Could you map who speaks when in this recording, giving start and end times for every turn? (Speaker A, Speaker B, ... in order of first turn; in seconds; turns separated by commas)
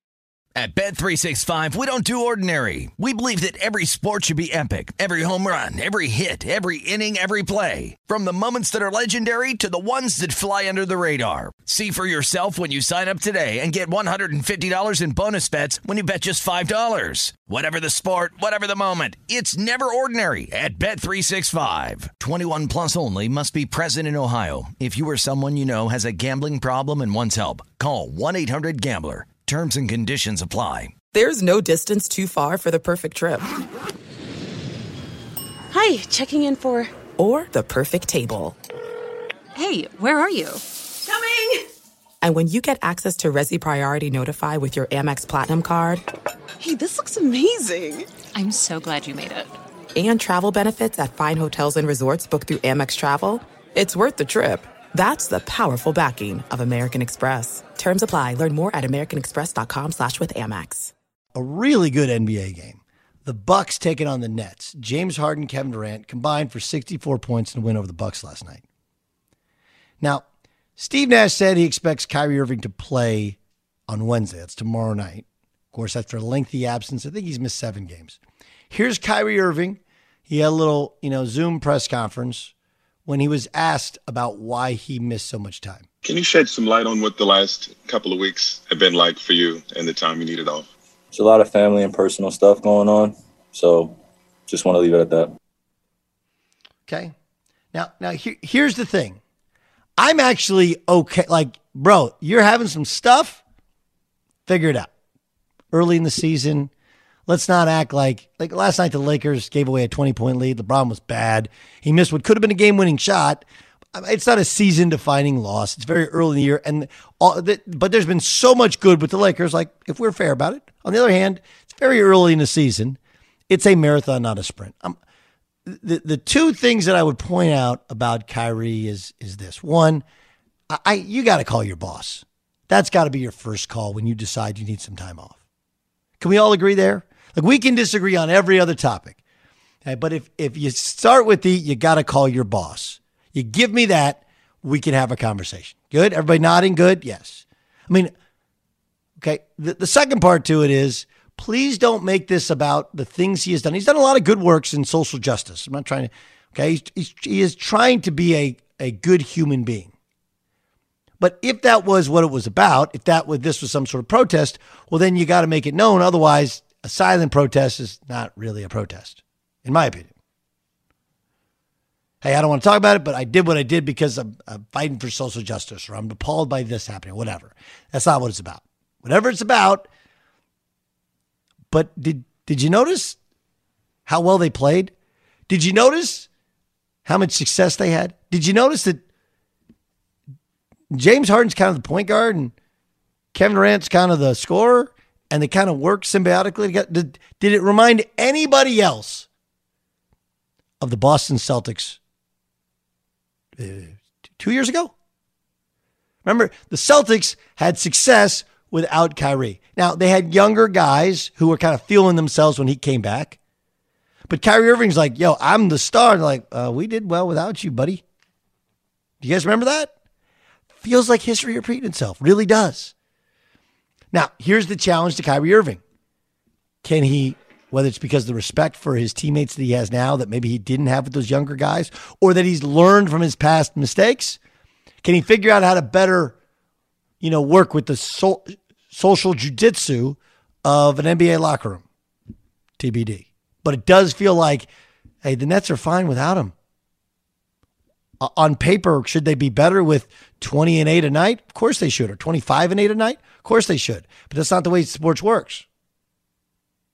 Speaker A: 0.5-30.9, Speaker B: 31.1-33.5, Speaker C: 35.7-36.9, Speaker B: 37.1-38.6, Speaker C: 39.5-41.6, Speaker B: 42.2-46.0, Speaker C: 46.6-49.5, Speaker B: 49.9-60.9, Speaker D: 61.3-68.6, Speaker D: 70.8-78.2, Speaker D: 78.7-82.5, Speaker D: 83.0-85.9, Speaker E: 86.0-90.7, Speaker F: 91.1-95.3, Speaker D: 96.9-97.1, Speaker D: 97.7-99.2, Speaker D: 100.0-103.4, Speaker D: 104.5-104.9, Speaker D: 105.7-106.7, Speaker D: 107.3-123.0, Speaker D: 123.5-125.0, Speaker D: 125.7-130.0, Speaker D: 130.7-135.4, Speaker D: 136.2-139.2, Speaker D: 139.8-148.1, Speaker D: 149.2-159.9, Speaker D: 161.2-170.1, Speaker D: 172.2-179.9, Speaker D: 181.7-183.2, Speaker D: 184.1-184.9, Speaker D: 185.5-186.3, Speaker D: 187.0-189.0, Speaker D: 190.9-192.5, Speaker D: 193.3-199.3, Speaker D: 200.8-202.0, Speaker D: 203.6-204.9, Speaker D: 206.2-213.4, Speaker D: 214.3-218.0, Speaker D: 219.2-219.9, Speaker D: 220.8-222.9, Speaker D: 224.1-225.8, Speaker D: 226.8-234.4, Speaker D: 235.0-236.3, Speaker D: 237.2-241.8, Speaker D: 242.8-244.7, Speaker D: 245.2-246.5, Speaker D: 248.2-255.7